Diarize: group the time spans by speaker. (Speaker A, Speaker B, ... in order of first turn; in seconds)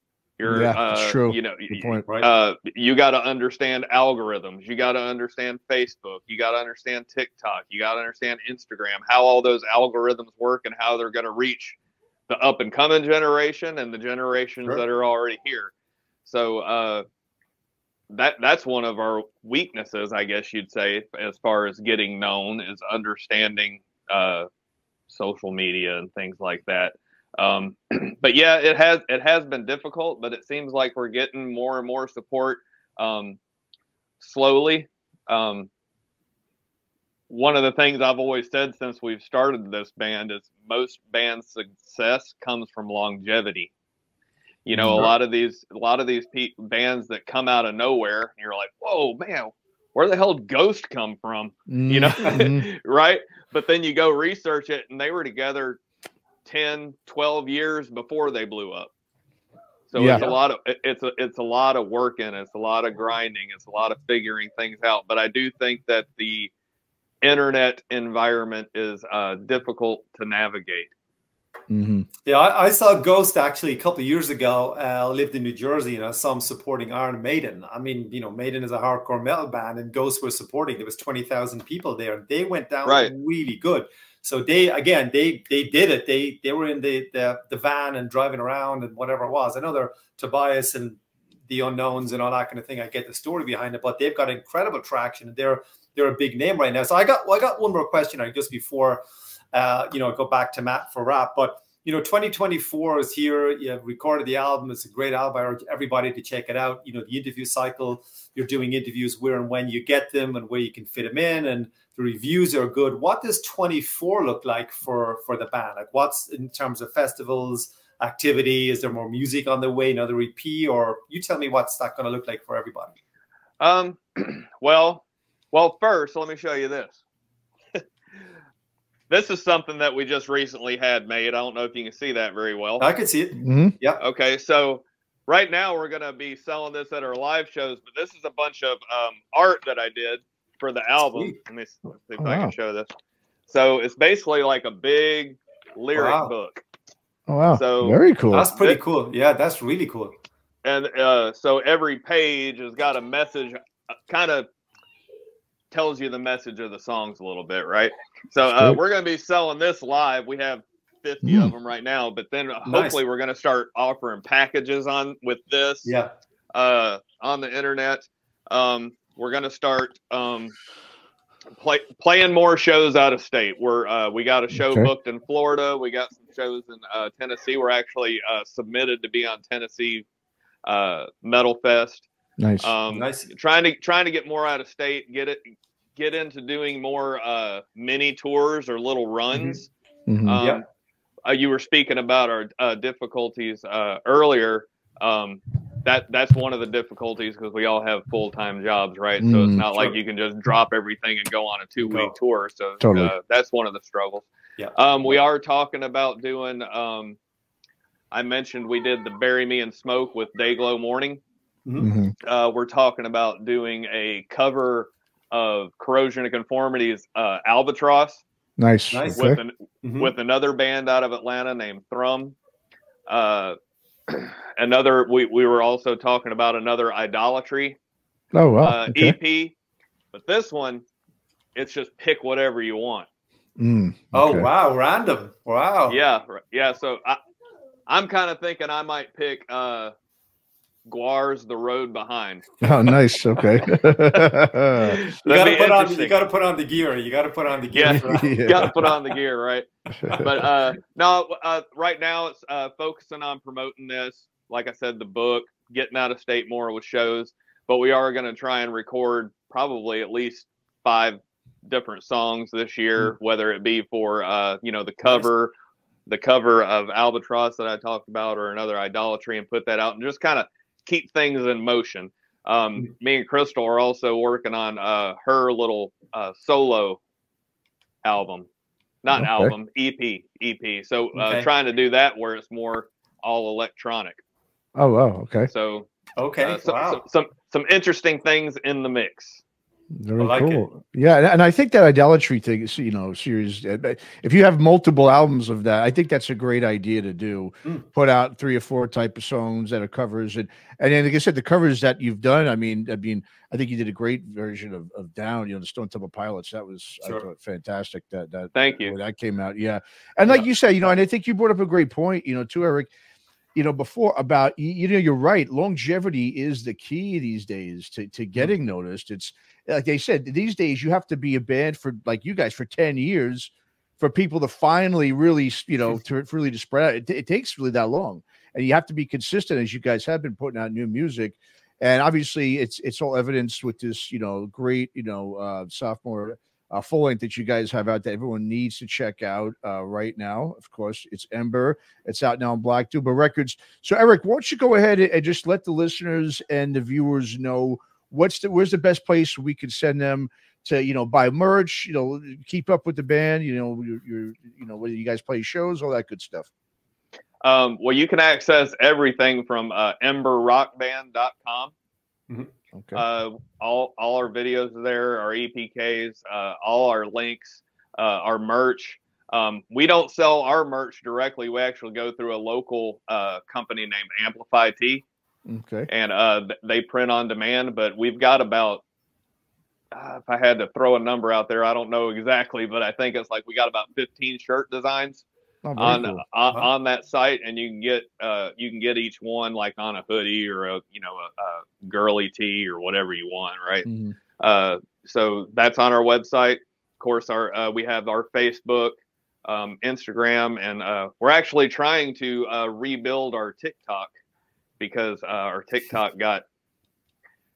Speaker A: 0.4-11.8, 12.3-15.7, 16.2-17.1, 18.1-24.5, 25.1-33.4, 34.2-35.7, 37.3-43.7, 44.6-55.8, 56.5-58.9, 59.9-66.5, 67.2-70.9, 82.8-83.1, 123.6-127.0, 129.1-132.9, 134.0-142.9, 143.5-146.6, 147.5-148.0, 150.6-154.5, 155.7-165.9, 166.5-170.5, 171.6-180.1, 180.7-182.1, 182.6-189.7, 190.2-190.6, 191.2-207.2, 208.1-211.2, 212.2-218.2, 219.2-222.3, 223.1-223.6, 224.1-227.8, 228.6-229.5, 230.1-230.8, 231.6-233.1, 235.9-237.2, 237.9-239.9, 240.9-242.5, 244.8-246.2, 247.7-265.5, 266.1-277.0, 278.0-278.5, 279.0-284.2, 285.5-285.9, 286.4-289.4, 308.5-309.0, 357.4-361.7, 362.9-375.0, 375.9-378.8, 379.9-385.2, 385.8-393.9, 394.4-404.1, 404.8-406.4
Speaker B: 0.5-2.0, 44.7-45.1, 51.7-52.7, 59.9-60.3, 71.7-72.1, 133.4-133.8, 142.2-142.5, 147.3-148.5, 158.4-158.8, 161.2-161.5, 174.5-174.9, 182.4-182.7, 190.1-190.4, 199.2-199.6, 202.8-203.1, 211.8-212.1, 218.6-219.4, 228.3-229.2, 233.6-234.5, 242.6-245.0, 247.8-248.8, 249.9-250.4, 279.1-279.5, 284.8-285.5, 289.9-312.9, 313.6-356.5, 362.7-363.0, 375.5-375.9, 385.6-386.2, 393.9-394.2
Speaker C: 72.3-123.0, 132.8-134.0, 141.0-141.4, 145.9-146.3, 148.3-150.2, 162.7-163.0, 165.8-166.1, 182.9-183.3, 189.3-189.6, 199.7-200.0, 201.8-202.1, 218.9-220.1, 234.1-236.0, 245.2-248.8, 281.1-281.5, 286.2-287.0, 290.2-290.7, 307.0-307.3